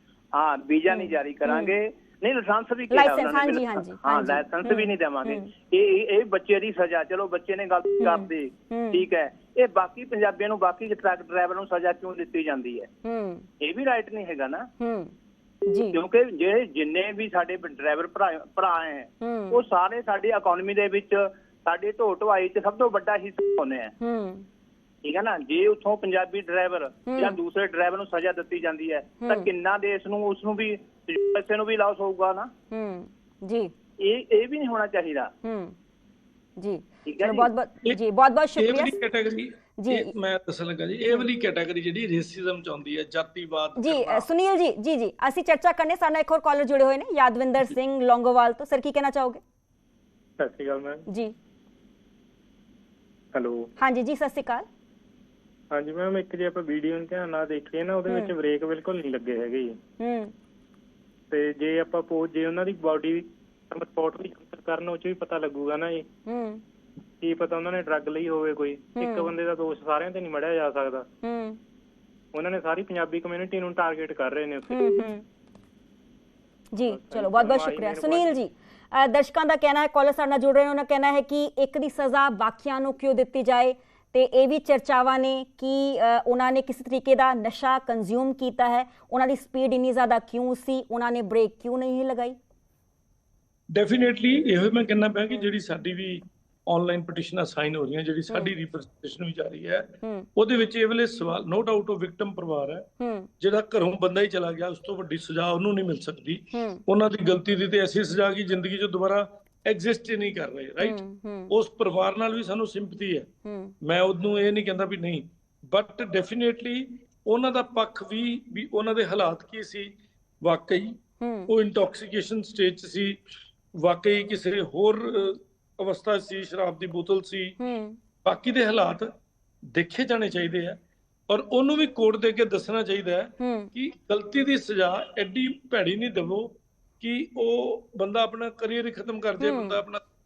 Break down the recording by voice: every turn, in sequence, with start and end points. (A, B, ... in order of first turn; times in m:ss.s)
0:00.3-0:12.9 A
0:00.9-0:01.7 B
0:02.9-0:05.5 B
0:08.0-0:09.0 B
0:13.0-0:13.5 B
0:13.6-0:14.7 A
0:14.8-0:15.1 B
0:15.6-0:16.0 B
0:15.9-0:23.9 A
0:19.2-0:19.6 B
0:24.0-0:24.5 B
0:25.0-0:32.5 A
0:27.0-0:27.4 B
0:29.2-0:29.5 B
0:32.7-0:33.7 B
0:34.0-0:35.3 A
0:35.4-0:35.8 B
0:36.6-0:39.0 B
0:37.0-0:37.5 A
0:38.6-0:44.2 C
0:39.8-0:40.1 B
0:43.8-0:49.4 B
0:50.4-0:51.1 D
0:51.1-0:51.3 B
0:53.3-0:53.7 D
0:53.8-0:54.7 B
0:55.7-0:59.8 D
1:00.0-1:00.3 B
1:01.3-1:06.0 D
1:06.3-1:06.6 B
1:07.2-1:11.0 D
1:09.0-1:09.3 B
1:11.2-1:11.6 B
1:12.3-1:15.1 D
1:14.7-1:15.2 B
1:16.7-1:32.4 B
1:16.8-1:18.4 D
1:33.7-1:42.9 C
1:43.0-1:43.3 B
1:43.4-1:53.3 C
1:46.5-1:46.8 B
1:50.8-1:51.5 B
1:53.4-1:53.7 B
1:53.8-1:59.9 C
2:00.4-2:01.0 C
2:01.2-2:01.5 B
2:01.5-2:03.2 C
2:03.8-2:07.6 C
2:07.6-2:08.0 B
2:08.2-2:09.1 C
2:09.7-2:10.8 C
2:11.3-2:20.0 C
2:13.4-2:13.7 B
2:19.4-2:19.8 B